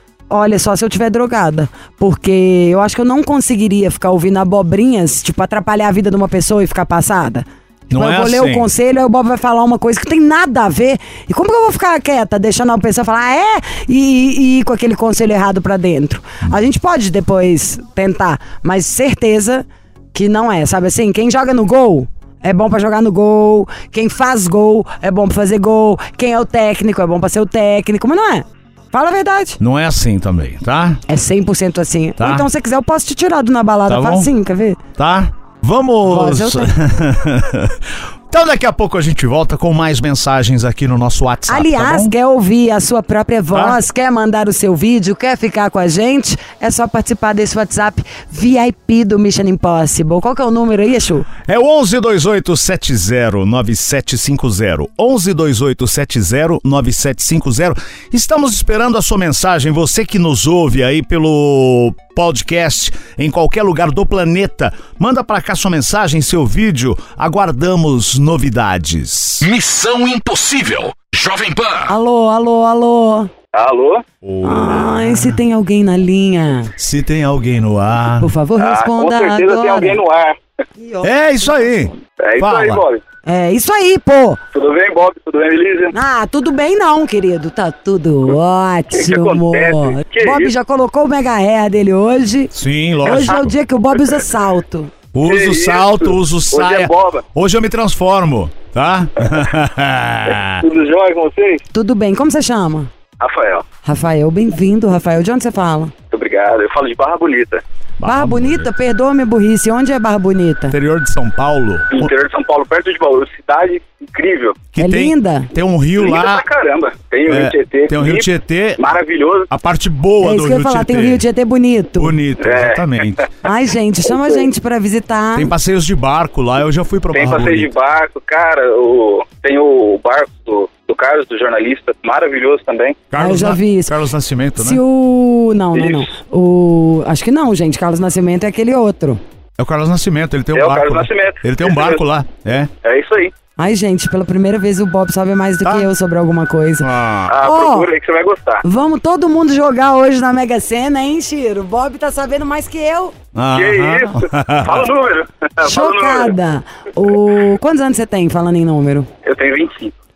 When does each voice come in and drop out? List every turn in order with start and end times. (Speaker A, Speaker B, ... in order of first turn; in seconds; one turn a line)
Speaker A: 0.3-29.6
Speaker B: 7.9-8.7
Speaker B: 29.6-31.0
Speaker A: 31.1-34.8
Speaker B: 32.2-32.5
Speaker B: 33.9-34.3
Speaker B: 35.0-42.1
Speaker A: 36.0-36.7
Speaker A: 41.5-51.3
Speaker B: 43.5-43.8
Speaker B: 51.5-69.5
Speaker C: 69.4-71.9
Speaker A: 71.9-73.3
Speaker D: 73.5-74.0
Speaker B: 74.2-75.4
Speaker A: 74.4-76.7
Speaker B: 76.8-78.3
Speaker A: 78.2-80.0
Speaker D: 78.6-80.4
Speaker A: 80.8-81.8
Speaker B: 81.0-82.8
Speaker D: 82.2-83.0
Speaker A: 83.2-84.4
Speaker D: 84.5-85.9
Speaker A: 85.9-94.9
Speaker D: 88.9-90.5
Speaker B: 92.5-93.5
Speaker D: 93.1-93.3
Speaker B: 95.1-100.6
Speaker D: 95.2-97.2
Speaker D: 100.4-101.6
Speaker A: 101.7-102.9
Speaker D: 103.2-103.7
Speaker A: 103.8-105.9
Speaker D: 106.1-107.6
Speaker B: 108.0-108.7
Speaker A: 108.0-110.7
Speaker B: 110.7-112.1
Speaker D: 111.9-114.6
Speaker B: 114.7-116.4
Speaker A: 114.8-115.5
Speaker D: 116.0-119.5
Speaker B: 117.3-118.8
Speaker B: 119.5-121.2
Speaker A: 120.2-122.1
Speaker B: 122.0-123.3
Speaker D: 122.4-123.0
Speaker A: 123.4-125.5
Speaker D: 124.1-124.5
Speaker B: 125.3-127.7
Speaker D: 127.1-133.1
Speaker B: 133.1-134.8
Speaker A: 133.2-133.9
Speaker A: 134.6-139.2
Speaker D: 135.7-136.1
Speaker B: 139.6-142.7
Speaker D: 140.5-142.0
Speaker D: 142.8-143.3
Speaker A: 143.6-147.9
Speaker B: 146.8-147.3
Speaker D: 147.3-148.6
Speaker A: 148.6-153.1
Speaker B: 153.3-154.9
Speaker D: 153.5-156.3
Speaker A: 155.6-159.1
Speaker D: 159.2-159.9